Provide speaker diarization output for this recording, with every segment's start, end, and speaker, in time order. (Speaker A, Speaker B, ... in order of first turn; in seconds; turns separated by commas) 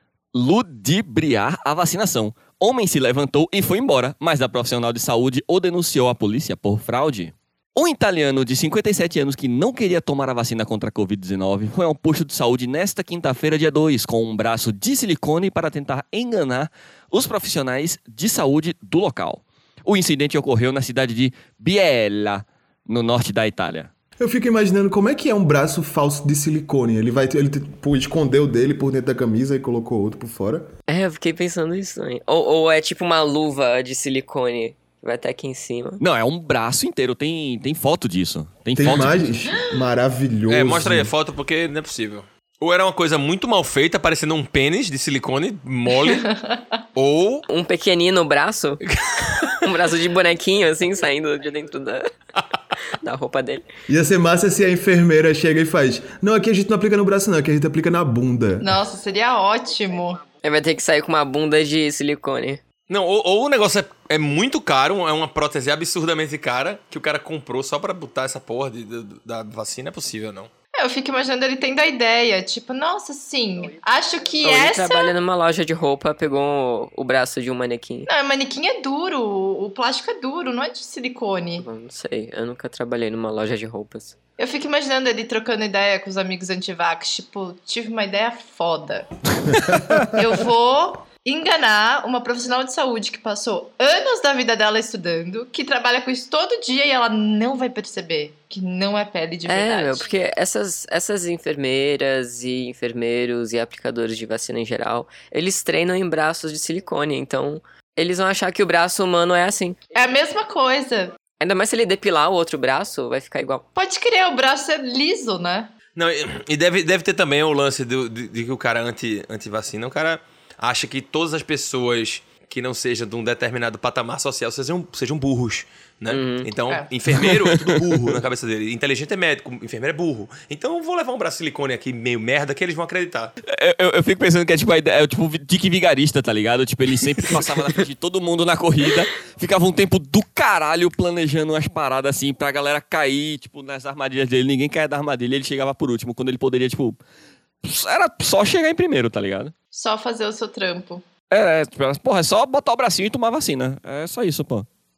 Speaker A: 0.3-23.9, Speaker B: 24.2-30.7, Speaker C: 30.9-36.0, Speaker A: 36.0-39.2, Speaker B: 38.7-41.1, Speaker D: 40.5-46.3, Speaker E: 46.0-46.6, Speaker D: 47.0-47.4, Speaker C: 47.5-48.8, Speaker D: 48.9-49.5, Speaker C: 49.6-52.1, Speaker C: 52.9-53.6, Speaker B: 53.9-58.7, Speaker E: 58.6-60.2, Speaker C: 60.4-62.6, Speaker D: 62.9-70.5, Speaker E: 70.8-75.1, Speaker C: 74.4-78.1, Speaker E: 78.1-81.6, Speaker C: 81.6-84.2, Speaker E: 84.4-89.1, Speaker E: 90.0-100.0, Speaker C: 99.5-109.8, Speaker E: 109.9-111.2, Speaker C: 111.4-113.6, Speaker E: 113.7-115.7, Speaker D: 115.9-133.3, Speaker C: 126.1-126.5, Speaker A: 127.1-127.8, Speaker A: 133.4-147.0, Speaker A: 147.6-149.5, Speaker E: 149.7-151.0, Speaker A: 151.3-154.7